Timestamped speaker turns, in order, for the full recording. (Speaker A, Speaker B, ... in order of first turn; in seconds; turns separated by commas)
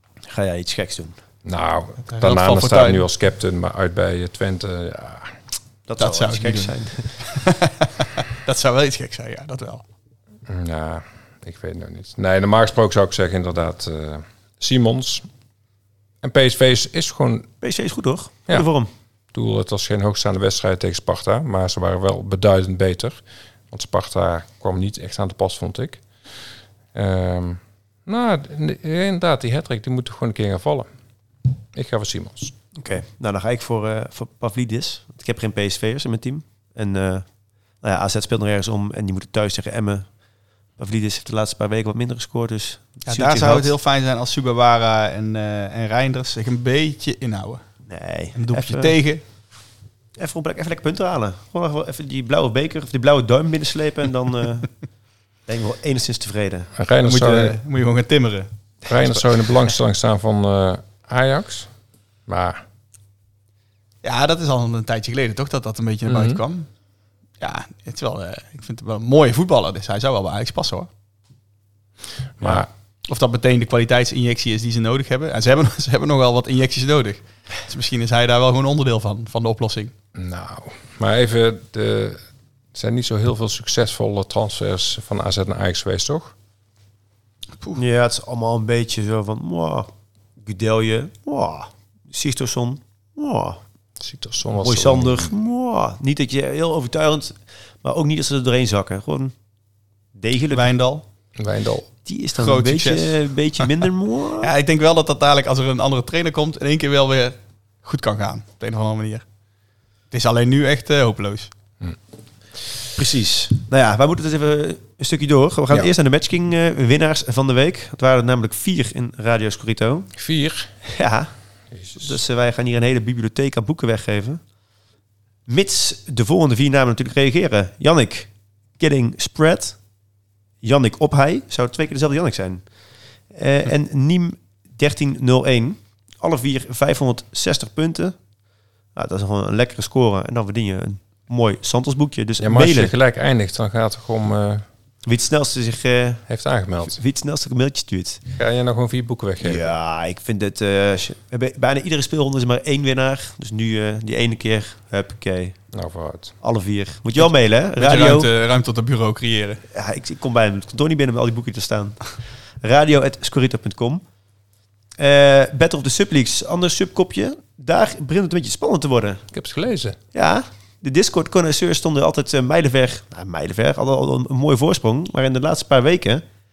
Speaker A: 0.3-1.2, Speaker B: 1.4-5.4, Speaker C: 2.1-3.1, Speaker A: 5.9-7.1, Speaker C: 6.0-9.8, Speaker B: 10.5-15.2, Speaker B: 16.2-17.5, Speaker A: 17.6-18.9, Speaker B: 19.3-23.2, Speaker B: 23.7-26.0, Speaker B: 26.9-30.9, Speaker B: 31.7-32.5, Speaker A: 32.8-37.2, Speaker A: 37.8-40.1, Speaker A: 40.8-43.7, Speaker C: 43.1-47.6, Speaker A: 47.9-49.0, Speaker C: 48.4-49.2, Speaker A: 50.2-54.7, Speaker A: 55.5-56.7, Speaker B: 56.8-57.6, Speaker C: 57.0-58.5, Speaker B: 58.9-61.7, Speaker B: 62.3-62.6, Speaker C: 64.0-66.7, Speaker B: 66.1-66.4, Speaker C: 67.4-70.9, Speaker B: 72.4-72.7, Speaker C: 72.4-79.9, Speaker B: 80.2-82.2, Speaker B: 82.7-86.3, Speaker A: 87.8-89.9, Speaker A: 90.4-93.6, Speaker B: 94.0-95.3, Speaker A: 94.6-99.3, Speaker A: 100.2-100.7, Speaker C: 100.5-101.0, Speaker B: 101.4-101.9, Speaker A: 102.1-104.5, Speaker C: 102.4-103.7, Speaker C: 104.4-109.2, Speaker C: 110.1-111.5, Speaker A: 113.0-120.1, Speaker B: 120.2-120.7, Speaker A: 120.8-121.3, Speaker B: 121.8-122.1, Speaker A: 121.9-124.4, Speaker A: 125.5-129.8, Speaker A: 130.6-132.6, Speaker A: 133.3-138.2, Speaker A: 138.9-142.9, Speaker B: 142.4-144.7, Speaker A: 145.1-146.2, Speaker B: 146.3-147.0, Speaker A: 146.8-148.2, Speaker B: 148.3-149.7, Speaker A: 149.4-155.6, Speaker B: 155.7-156.3, Speaker A: 156.4-158.3, Speaker C: 157.2-159.6, Speaker A: 159.7-164.0, Speaker A: 165.0-169.2, Speaker B: 169.3-170.0, Speaker A: 170.1-176.2